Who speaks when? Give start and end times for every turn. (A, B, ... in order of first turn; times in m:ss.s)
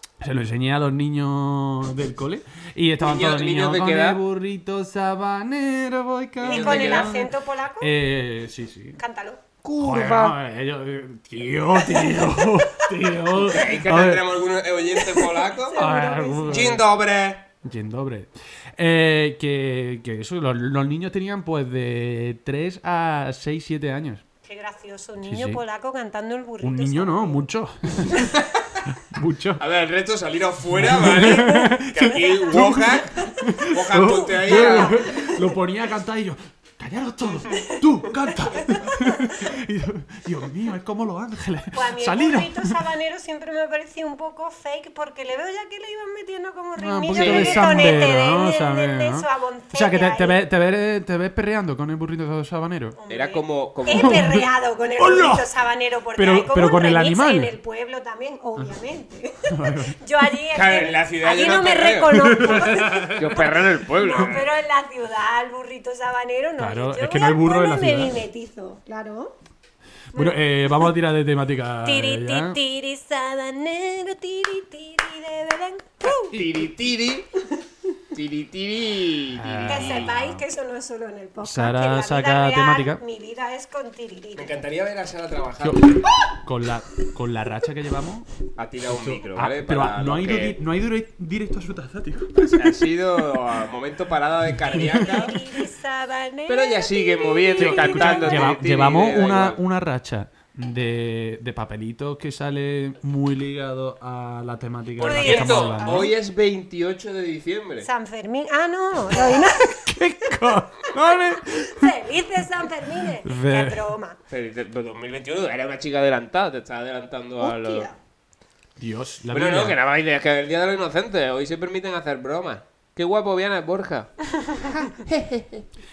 0:00.2-0:09.0 A
0:03.0-0:04.2 B
0:06.4-0:07.1 B
0:06.4-0:07.9 C
0:09.0-0:09.4 C
0:09.6-0:10.3 B
0:09.8-0:14.2 A
0:12.0-0:12.9 C
0:13.3-0:15.8 B
0:14.9-0:16.7 C
0:15.8-0:16.8 A
0:16.5-0:17.5 B
0:17.6-0:24.2 A
0:24.4-0:27.4 C
0:25.2-0:25.6 A
0:26.6-0:28.3 A
0:28.3-0:28.8 B
0:29.0-0:29.6 A
0:29.6-0:35.3 B
0:30.7-0:42.8 A
0:31.3-0:33.4 C
0:34.6-0:35.3 C
0:37.5-0:37.8 C
0:38.5-0:39.4 C
0:41.7-0:50.4 C
0:46.8-0:53.0 A
0:47.1-0:48.2 B
0:53.0-1:09.3 C
0:53.1-0:54.3 B
0:53.9-0:55.5 A
0:56.2-0:57.5 A
0:59.5-1:00.0 A
1:00.5-1:04.5 B
1:02.1-1:03.5 A
1:06.6-1:08.2 A
1:10.1-1:10.4 C
1:10.1-1:12.6 A
1:11.8-1:16.4 C
1:16.1-1:17.3 B
1:18.1-1:20.1 B
1:19.3-1:20.4 A
1:19.7-1:24.6 C
1:21.4-1:23.0 A
1:24.4-1:26.1 B
1:25.6-1:28.3 A
1:28.6-1:30.6 B
1:28.9-1:32.8 A
1:32.4-1:35.4 B
1:34.6-1:35.2 A
1:34.7-1:38.6 C
1:36.5-1:39.6 B
1:37.6-1:46.1 A
1:45.0-1:47.9 B
1:45.0-1:46.1 C
1:47.8-1:49.9 C
1:49.1-1:51.9 A
1:51.0-1:54.2 C
1:53.2-1:53.9 A
1:54.3-1:57.9 B
1:57.4-1:57.9 C
1:58.8-1:59.8 A
1:59.3-2:04.3 B
2:04.3-2:04.9 C
2:05.0-2:05.6 B